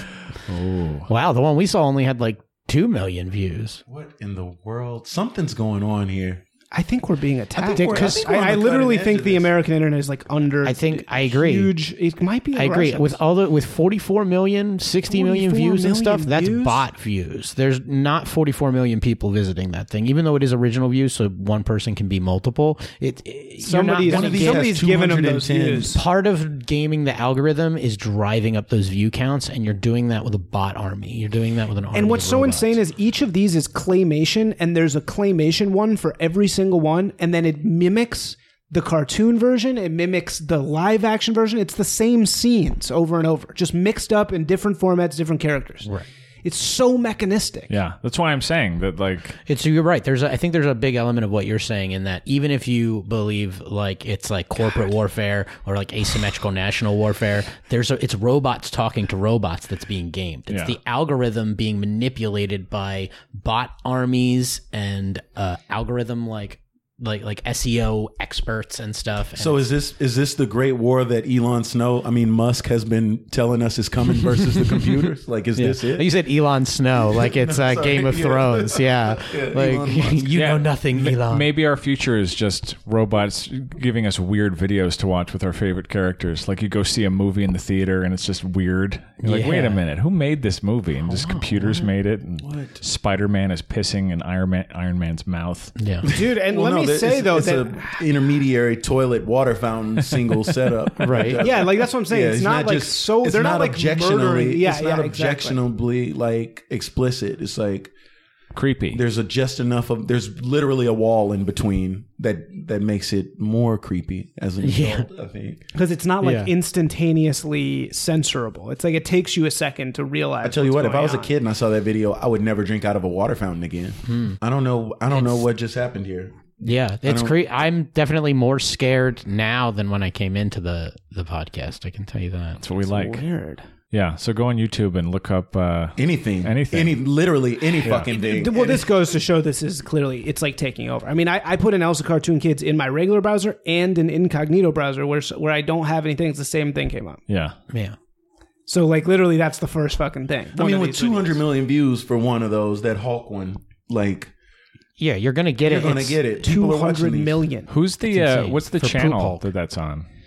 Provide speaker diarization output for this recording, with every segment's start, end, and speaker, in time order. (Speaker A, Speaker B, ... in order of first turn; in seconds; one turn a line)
Speaker A: 0.5-1.1
Speaker B: 1.1-3.8
Speaker C: 3.9-6.4
Speaker D: 6.7-13.2
Speaker C: 7.6-9.5
Speaker B: 7.6-8.3
Speaker B: 10.6-11.7
Speaker B: 12.5-24.7
Speaker D: 15.1-16.8
Speaker D: 23.6-26.0
Speaker C: 24.0-26.0
Speaker B: 25.9-32.8
Speaker D: 31.9-45.9
Speaker D: 46.4-47.7
Speaker A: 47.7-49.4
Speaker B: 49.5-69.6
Speaker A: 60.5-60.8
Speaker C: 69.4-76.1
Speaker B: 75.5-81.5
Speaker C: 77.2-80.3
Speaker A: 80.3-95.7
Speaker B: 89.2-89.8
Speaker B: 91.0-91.9
Speaker C: 92.4-92.8
Speaker B: 95.8-96.1
Speaker D: 96.1-98.0
Speaker C: 96.1-107.9
Speaker B: 101.0-101.4
Speaker D: 101.4-105.6
Speaker A: 108.5-109.0
Speaker C: 108.9-115.6
Speaker B: 114.6-115.0
Speaker D: 115.7-121.3
Speaker B: 116.2-116.5
Speaker C: 120.4-127.4
Speaker B: 124.1-124.4
Speaker B: 125.1-125.4
Speaker B: 126.6-132.6
Speaker A: 132.6-133.2
Speaker D: 132.8-133.7
Speaker A: 133.9-137.0
Speaker C: 136.0-138.9
Speaker A: 137.8-138.1
Speaker D: 138.1-147.2
Speaker A: 147.3-147.6
Speaker B: 147.7-148.0
Speaker D: 148.7-151.4
Speaker C: 150.5-154.3
Speaker B: 155.0-156.2
Speaker C: 155.6-157.4
Speaker D: 155.8-157.7
Speaker A: 157.7-160.1
Speaker B: 158.0-159.4